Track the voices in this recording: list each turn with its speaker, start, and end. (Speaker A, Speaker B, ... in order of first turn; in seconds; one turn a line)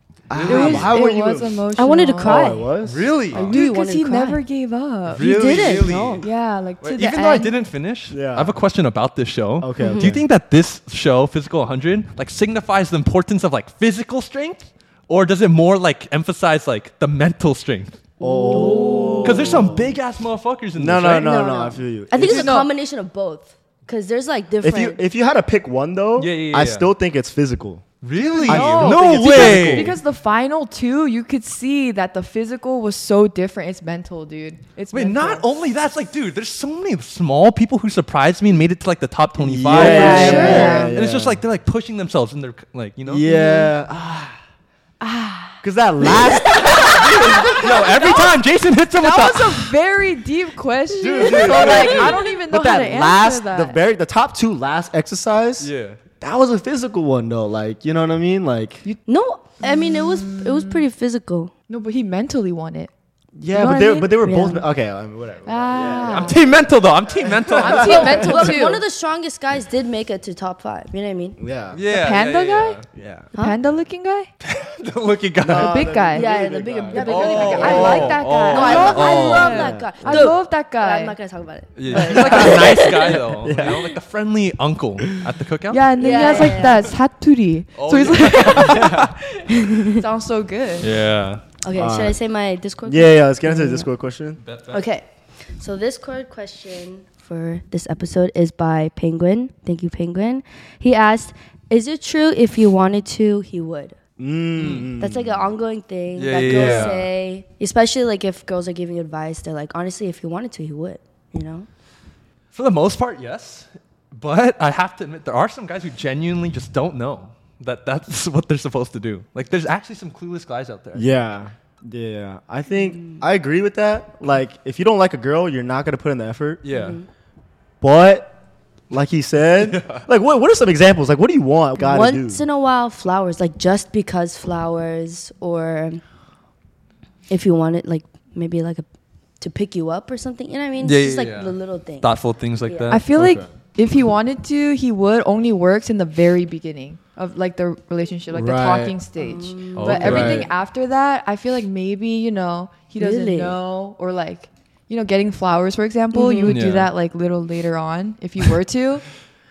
Speaker A: 0.3-3.5
Speaker B: 0.3-1.0
Speaker C: 0.5-2.5
Speaker D: 1.7-2.7
Speaker B: 2.8-3.5
Speaker D: 3.3-4.4
Speaker C: 3.3-5.3
Speaker B: 5.1-6.3
Speaker D: 5.1-6.2
Speaker C: 6.2-7.6
Speaker B: 6.8-18.0
Speaker A: 8.1-8.6
Speaker A: 9.6-10.2
Speaker D: 9.8-10.2
Speaker A: 18.2-20.0
Speaker D: 18.2-19.3
Speaker C: 18.5-19.3
Speaker B: 19.2-21.4
Speaker A: 20.8-22.5
Speaker D: 21.2-25.0
Speaker C: 22.2-22.7
Speaker A: 24.6-27.9
Speaker B: 26.2-26.9
Speaker B: 28.0-29.9
Speaker C: 28.2-35.5
Speaker A: 28.4-30.0
Speaker B: 34.9-43.2
Speaker A: 39.4-41.4
Speaker D: 39.7-40.8
Speaker C: 39.7-41.0
Speaker A: 43.0-44.4
Speaker C: 43.3-43.7
Speaker C: 45.0-48.4
Speaker A: 45.6-47.8
Speaker B: 46.5-49.8
Speaker C: 49.0-53.8
Speaker A: 50.9-55.7
Speaker D: 51.0-52.1
Speaker B: 51.7-52.1
Speaker B: 55.6-56.0
Speaker A: 56.2-58.8
Speaker D: 59.0-61.5
Speaker C: 59.6-60.8
Speaker C: 61.7-62.9
Speaker A: 63.4-66.4
Speaker C: 63.5-64.2
Speaker D: 64.2-64.7
Speaker C: 65.5-66.4
Speaker B: 66.0-68.2
Speaker A: 67.3-68.5
Speaker C: 67.5-68.8
Speaker D: 67.6-71.4
Speaker A: 71.4-71.8
Speaker B: 71.7-72.8
Speaker C: 71.9-72.8
Speaker A: 72.9-73.3
Speaker C: 73.3-74.3
Speaker B: 74.4-75.8
Speaker A: 75.4-78.2
Speaker C: 75.5-76.3
Speaker D: 76.1-83.2
Speaker C: 76.9-81.2
Speaker B: 77.0-79.8
Speaker A: 79.4-80.3
Speaker B: 81.8-86.6
Speaker C: 81.9-82.8
Speaker A: 81.9-83.9
Speaker C: 85.7-90.9
Speaker D: 86.0-86.9
Speaker B: 87.8-89.1
Speaker A: 88.7-89.0
Speaker D: 89.5-90.0
Speaker B: 90.8-91.4
Speaker D: 91.6-93.9
Speaker A: 91.8-92.2
Speaker A: 92.8-94.4
Speaker B: 94.4-94.8
Speaker D: 94.7-104.0
Speaker A: 104.2-105.5
Speaker B: 104.6-104.9
Speaker D: 105.0-111.7
Speaker B: 106.2-107.1
Speaker C: 106.5-106.9
Speaker B: 112.5-121.0
Speaker A: 120.9-126.6
Speaker D: 122.7-123.2
Speaker B: 126.6-127.0
Speaker D: 126.7-127.0
Speaker A: 127.8-128.3
Speaker A: 128.9-132.4
Speaker B: 129.5-130.0
Speaker D: 131.8-136.0
Speaker D: 137.3-138.8
Speaker D: 139.4-142.1
Speaker B: 140.8-143.3
Speaker D: 142.7-143.0
Speaker C: 142.9-159.0
Speaker A: 143.2-143.4
Speaker A: 148.3-148.9
Speaker D: 149.2-150.4
Speaker B: 149.8-150.5
Speaker A: 150.0-150.5
Speaker D: 153.0-153.6
Speaker D: 156.1-156.6
Speaker B: 156.5-156.9